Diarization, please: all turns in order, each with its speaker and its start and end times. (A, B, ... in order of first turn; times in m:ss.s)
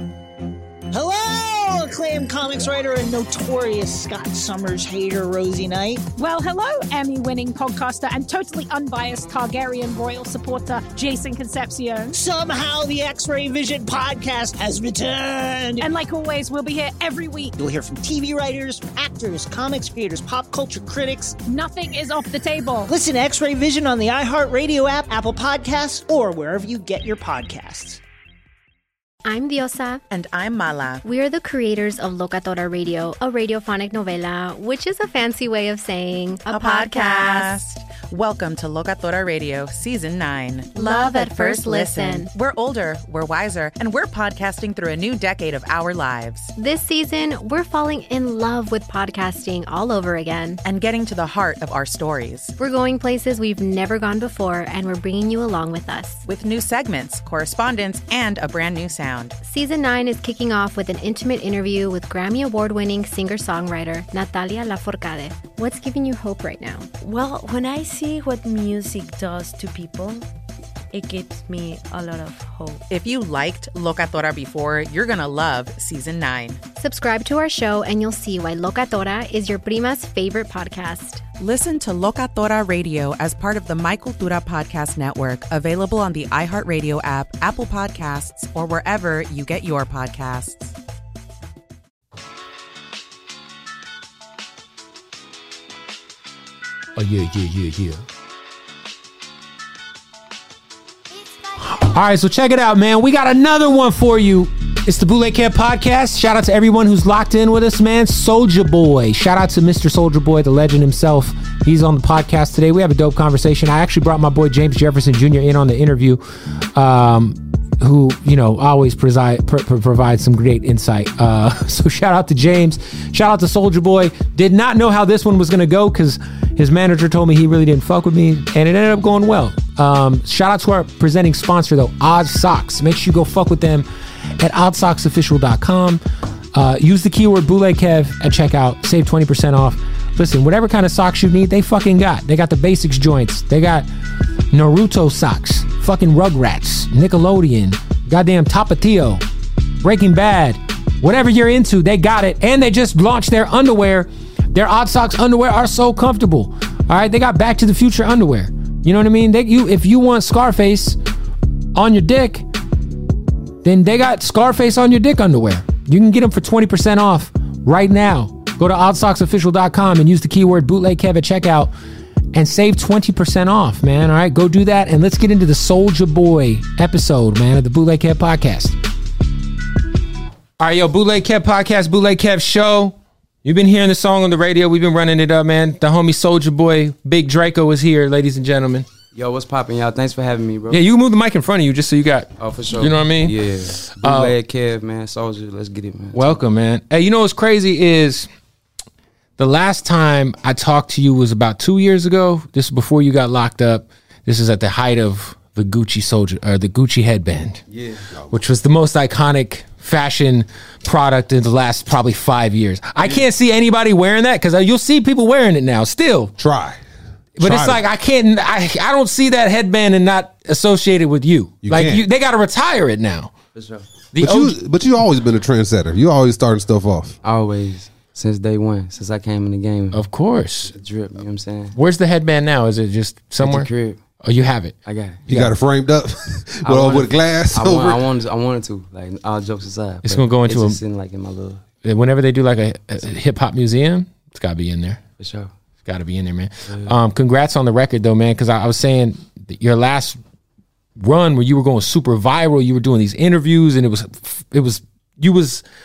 0:00.9-0:06.0 A
0:06.2-0:12.1 B
0:12.1-0:15.9 A
0:15.8-0:17.5 B
0:17.6-0:21.4 A
0:21.5-0:22.9 B
0:22.9-0:28.0 A
0:29.2-0:30.0 C
0:30.1-0:31.0 D
0:31.0-0:37.6 C
0:36.5-0:46.5 D
0:40.8-0:42.3 C
0:46.6-0:50.6 C
0:50.6-0:52.5 D
0:52.6-0:56.3 C
0:56.3-0:59.4 D
0:59.4-1:06.9 C
1:07.0-1:10.3 E
1:10.9-1:12.9 E
1:12.9-1:16.6 D
1:16.8-1:21.2 C
1:21.4-1:30.8 D
1:37.0-1:38.0 F
1:41.6-1:56.2 F
1:56.7-2:13.9 F
2:14.4-2:16.0 F
2:16.5-2:23.9 F
2:24.5-2:29.2 F
2:29.8-2:41.0 F
2:41.8-2:42.4 F
2:43.6-2:51.7 F
2:52.3-2:58.8 F
3:00.6-3:08.9 F
3:09.1-3:10.8 G
3:10.7-3:14.3 F
3:12.4-3:16.4 G
3:16.1-3:18.3 F
3:19.4-3:27.6 F
3:27.7-3:28.1 G
3:28.3-3:36.3 F
3:36.4-3:36.8 H
3:37.4-3:43.3 F
3:37.4-3:37.8 H
3:41.6-3:42.0 H
3:43.6-3:43.9 G
3:44.1-3:44.6 F
3:44.2-3:47.2 H
3:47.2-3:50.0 G
3:49.9-3:50.7 F
3:50.7-3:51.8 G
3:51.8-3:53.7 F
3:53.4-3:54.0 G
3:54.2-3:54.8 F
3:54.8-3:55.2 G
3:55.3-3:58.0 H
3:55.3-3:55.6 F
3:56.6-4:01.6 G
4:00.0-4:00.8 F
4:01.8-4:05.0 F
4:05.2-4:05.5 G
4:05.8-4:10.2 F
4:06.7-4:07.0 G
4:11.0-4:15.6 F